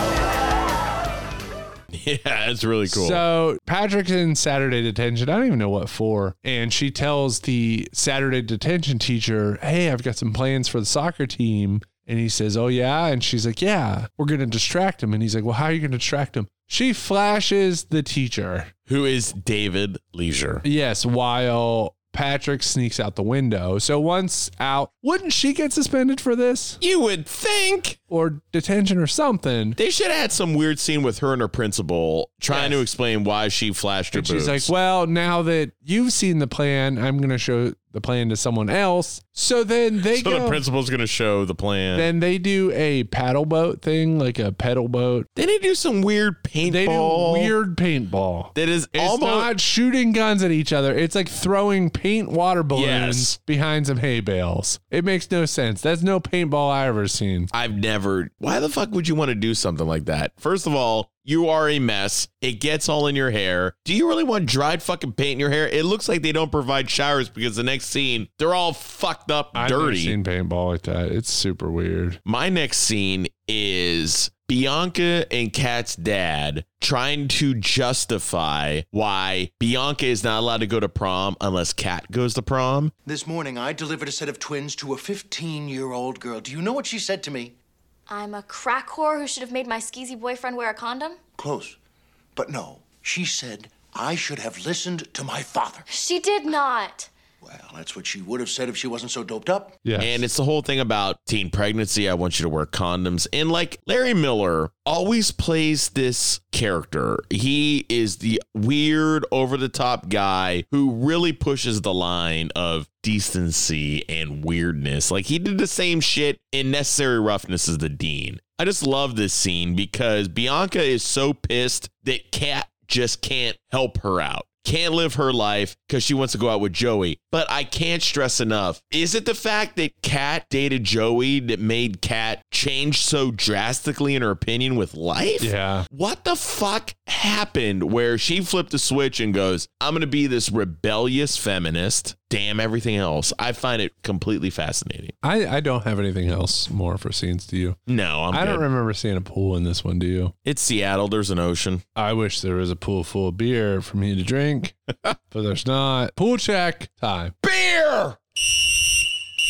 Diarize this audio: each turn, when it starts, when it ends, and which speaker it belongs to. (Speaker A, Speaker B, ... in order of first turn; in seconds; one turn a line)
Speaker A: 1.9-3.2
Speaker B: 2.9-18.7
Speaker A: 18.9-20.6
Speaker B: 20.6-26.8
Speaker A: 26.8-28.0
Speaker B: 28.1-29.8
Speaker A: 29.8-34.7
Speaker B: 32.5-32.8
Speaker B: 34.1-40.6
Speaker A: 40.1-42.1
Speaker B: 41.9-45.3
Speaker A: 45.4-47.5
Speaker B: 46.6-57.5
Speaker A: 48.5-49.5
Speaker A: 52.7-53.4
Speaker A: 57.5-70.2
Speaker B: 69.5-72.2
Speaker A: 72.2-82.9
Speaker C: 83.0-87.5
Speaker D: 88.1-91.2
Speaker C: 91.4-91.8
Speaker C: 92.4-95.9
Speaker D: 95.9-97.1
Speaker C: 97.4-99.8
Speaker B: 99.8-100.2
Speaker A: 100.0-145.1
Speaker B: 135.4-135.9
Speaker B: 145.2-147.8
Speaker A: 147.9-148.7
Speaker B: 148.3-150.3
Speaker A: 150.4-151.8
Speaker B: 152.0-154.8
Speaker B: 155.3-157.4
Speaker A: 157.4-158.2